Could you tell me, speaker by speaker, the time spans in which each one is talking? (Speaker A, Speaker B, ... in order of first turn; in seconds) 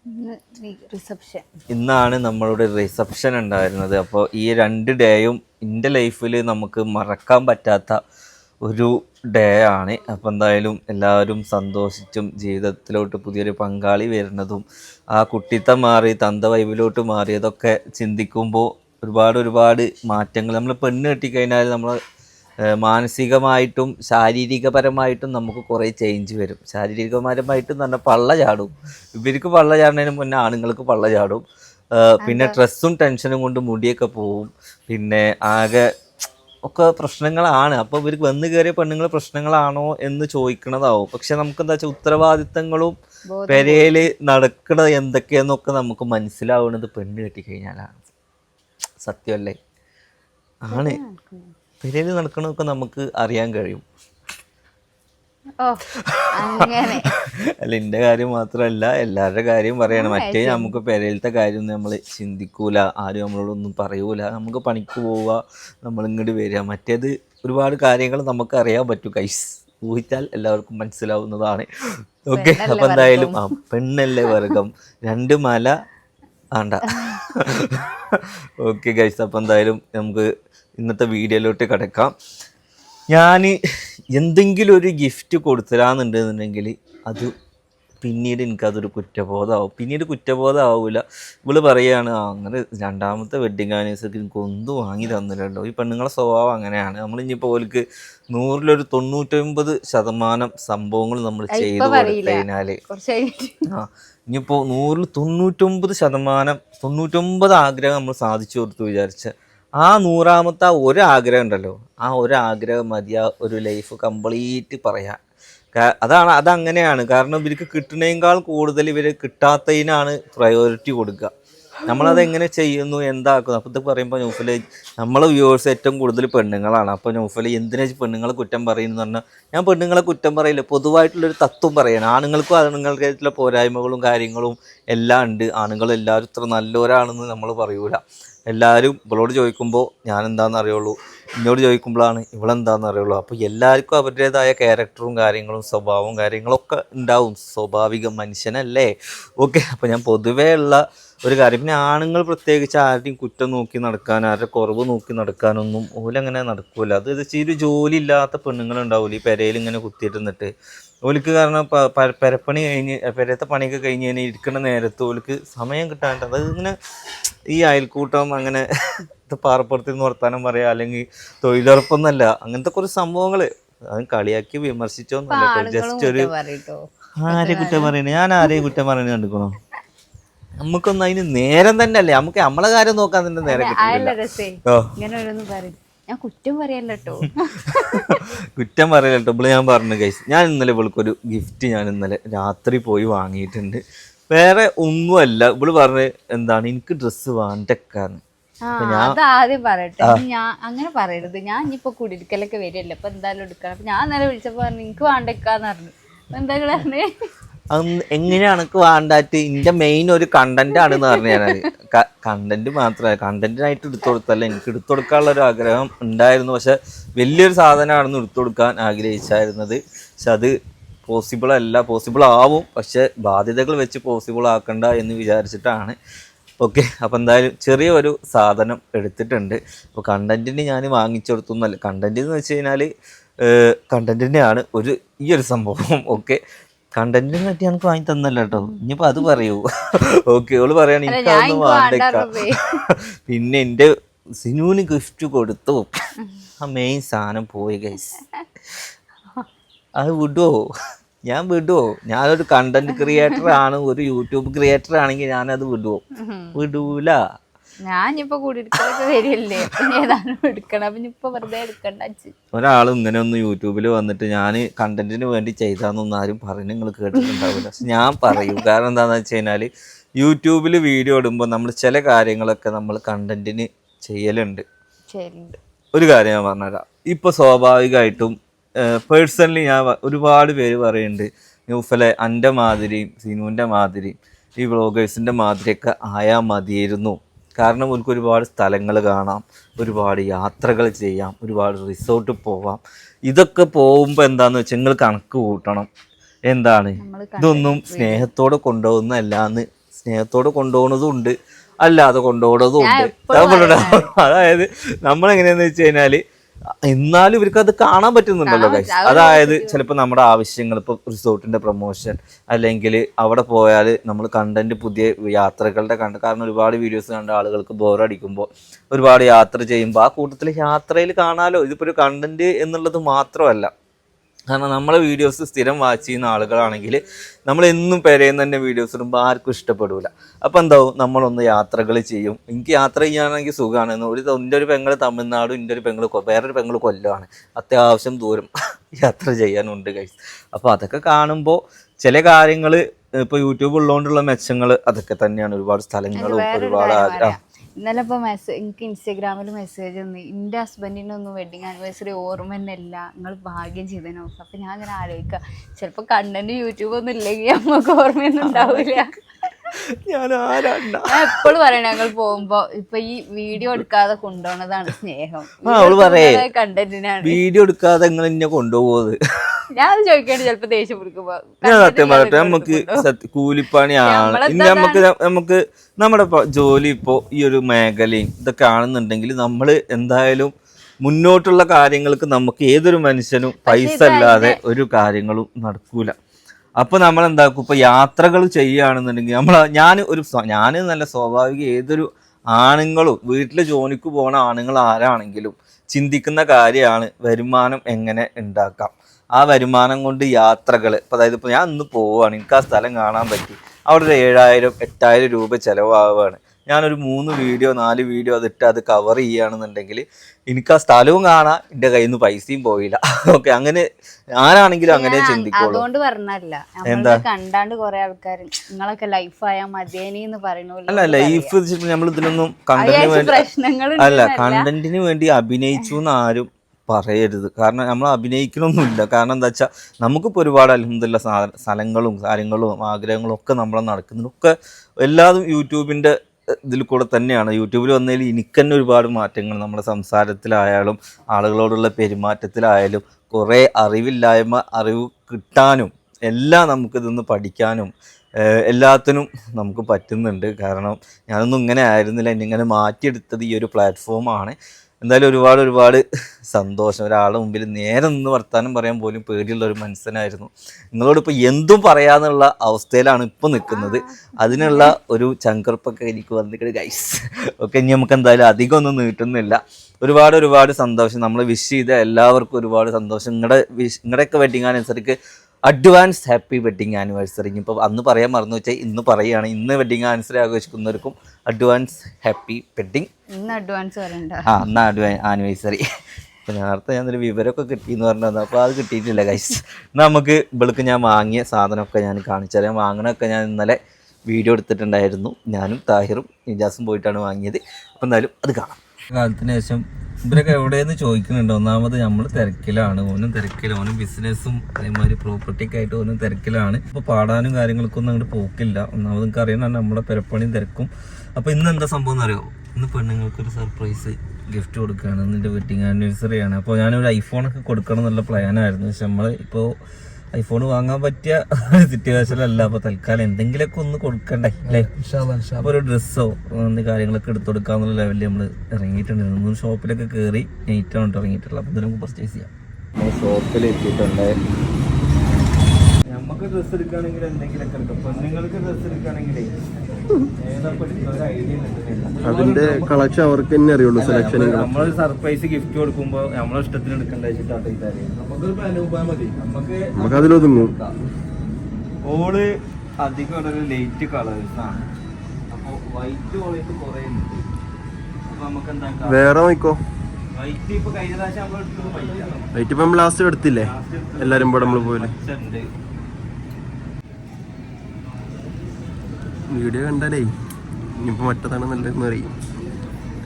Speaker A: 0.1-1.5, 32.2-32.6, 43.3-44.1, 50.7-51.5, 55.6-57.1, 59.9-60.8, 72.3-73.5, 74.2-74.6, 76.8-77.2, 101.5-103.6, 121.9-122.3, 175.3-178.7, 183.4-188.2, 198.7-207.1, 210.8-211.7, 238.5-238.8, 241.1-242.8, 253.0-253.6, 256.1-256.6, 257.9-262.3, 267.1-268.6, 275.1-275.6, 297.0-298.3, 302.8-304.1, 308.4-309.8, 346.1-359.7, 361.0-367.4, 369.7-373.1, 374.0-375.1, 383.6-384.6, 414.9-421.6, 422.7-424.7, 463.7-464.9, 483.3-484.5
Speaker B: 1.7-8.0, 8.6-22.0, 22.8-31.4, 32.0-35.9, 36.6-42.9, 43.5-48.0, 49.0-49.5, 50.6-51.0, 51.8-53.8, 56.0-71.7, 72.3-75.7, 76.5-80.3, 80.8-82.1, 83.1-83.5, 84.1-87.3, 88.0-102.8, 103.7-115.2, 115.7-121.3, 121.9-160.5, 161.1-166.7, 167.5-176.3, 177.2-179.6, 180.6-184.2, 187.7-198.2, 198.8-199.2, 207.7-220.5, 221.1-225.9, 226.6-232.9, 233.4-236.4, 236.9-243.9, 244.4-245.9, 246.6-248.2, 250.0-250.6, 251.3-256.0, 256.6-257.2, 262.5-274.6, 275.9-295.9, 296.5-306.2, 306.9-323.7, 324.5-347.4, 358.4-359.1, 360.1-361.5, 365.6-366.4, 367.2-369.1, 371.6-386.1, 386.8-413.8, 414.4-415.8, 416.9-417.2, 420.9-423.4, 424.0-436.1, 436.6-456.0, 456.5-475.1, 475.7-483.1, 484.4-485.8, 486.4-493.8, 494.3-519.8, 520.3-534.4, 536.1-539.5, 540.3-543.0, 544.0-548.1, 549.4-550.9, 552.1-552.5, 553.0-554.8, 555.5-557.4, 558.3-559.4, 560.3-562.5, 563.5-565.7
Speaker C: 542.2-544.7, 548.4-549.3, 549.9-550.7, 559.0-559.8, 562.5-565.1, 569.5-570.3, 571.0-572.3